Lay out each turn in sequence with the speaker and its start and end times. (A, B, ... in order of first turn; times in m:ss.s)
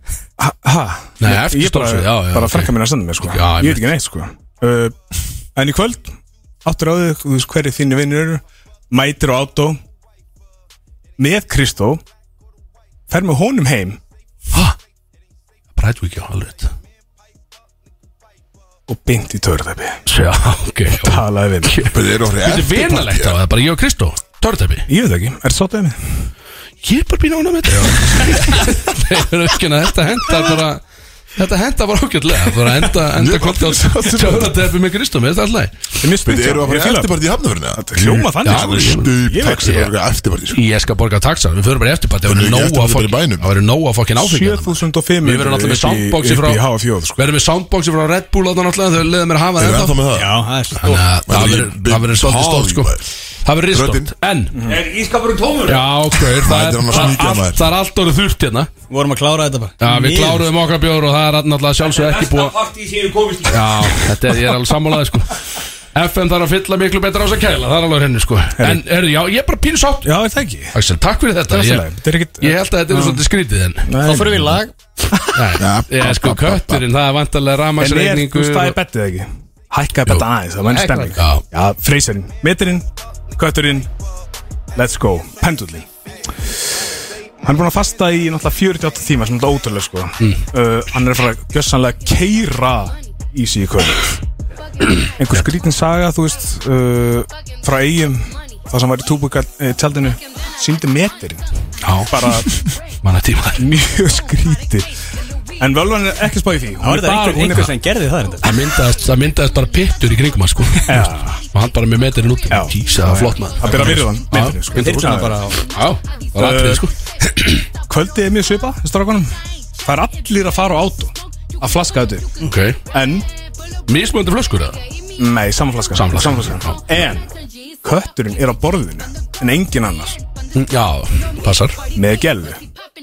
0:00.4-0:05.0 A
0:01.2-0:03.9 B
0:05.6-0:09.8 A
0:11.2-0:12.0 A
0:13.1-0:14.0 A
0:15.7-0:16.7 B
0:18.9-0:20.0 A
0:20.1-0:24.9 B
0:21.0-0:21.7 A
0:21.8-0:23.4 C
0:24.9-0:26.0 A
0:26.8-0:30.8 B
0:31.4-0:35.7 B
0:33.1-0:34.6 C
0:36.0-0:37.1 A
0:36.2-0:40.6 C
0:37.7-0:39.7 A
0:38.4-0:39.9 B
0:40.5-0:46.6 B
0:42.2-0:43.5 C
0:44.2-0:47.2 A
0:47.2-0:50.0 B
0:49.6-0:50.3 C
0:50.1-0:51.1 D
0:50.8-0:54.6 B
0:51.3-0:53.0 C
0:53.7-0:54.1 C
0:54.6-0:54.8 A
0:54.6-0:55.9 E
0:55.6-0:58.7 B
0:56.4-0:57.7 C
0:58.9-1:00.5 D
0:59.8-1:02.6 B
1:01.8-1:04.0 E
1:03.4-1:10.2 B
1:10.0-1:10.7 A
1:10.7-1:11.9 B
1:11.5-1:13.2 A
1:12.4-1:14.2 B
1:13.9-1:14.6 A
1:14.0-1:14.7 D
1:15.3-1:18.8 B
1:15.6-1:16.9 C
1:17.8-1:23.9 A
1:20.7-1:21.2 D
1:21.2-1:21.4 B
1:24.7-1:25.9 A
1:27.4-1:34.2 A
1:35.2-1:41.4 A
1:41.8-1:42.4 B
1:42.1-1:42.5 A
1:43.0-1:43.6 B
1:43.6-1:44.9 A
1:45.6-1:47.7 A
1:46.8-1:48.5 D
1:48.4-1:57.6 B
1:50.9-1:51.4 A
1:52.5-1:55.4 A
1:54.7-1:55.6 D
1:56.4-1:56.9 A
1:57.9-2:02.3 A
2:02.4-2:02.8 B
2:02.9-2:03.3 A
2:03.9-2:04.8 B
2:05.2-2:07.3 A
2:05.9-2:06.8 B
2:07.8-2:10.2 A
2:10.5-2:11.8 B
2:11.9-2:12.6 A